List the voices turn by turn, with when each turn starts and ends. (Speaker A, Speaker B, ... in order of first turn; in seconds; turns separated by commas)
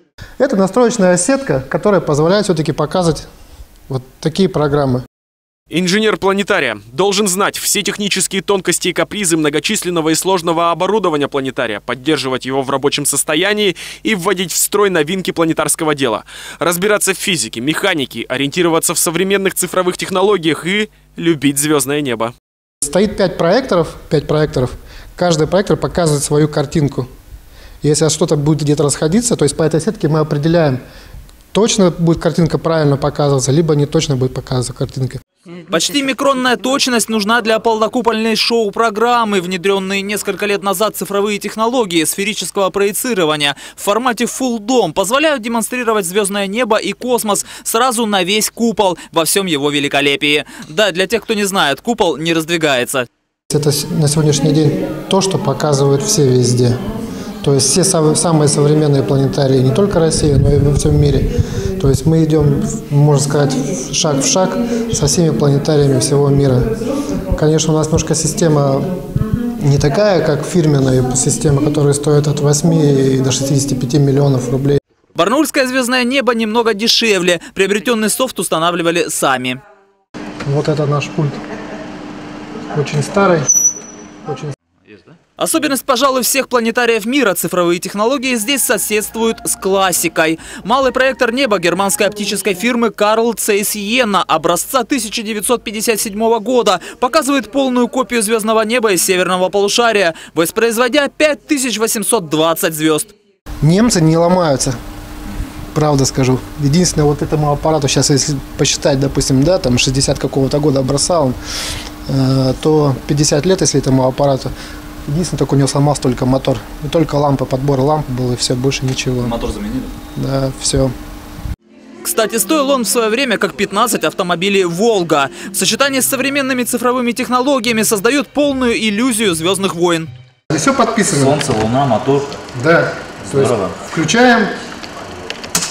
Speaker A: 0.4-3.3, Speaker A: 3.9-5.0, Speaker B: 5.7-22.3, Speaker A: 22.8-27.1, Speaker A: 27.8-30.8, Speaker A: 31.5-35.2, Speaker C: 35.7-53.1, Speaker A: 53.5-56.8, Speaker A: 57.4-66.7, Speaker A: 67.3-74.8, Speaker C: 75.2-79.6, Speaker A: 80.4-81.4, Speaker A: 82.7-83.5, Speaker A: 84.3-84.5, Speaker C: 85.4-103.1, Speaker A: 103.6-104.8, Speaker A: 105.7-111.4, Speaker A: 112.1-114.5, Speaker A: 115.1-119.4, Speaker C: 119.2-119.9, Speaker A: 120.2-120.9, Speaker C: 122.0-130.1, Speaker A: 130.5-131.5, Speaker C: 131.2-132.3, Speaker A: 132.6-134.5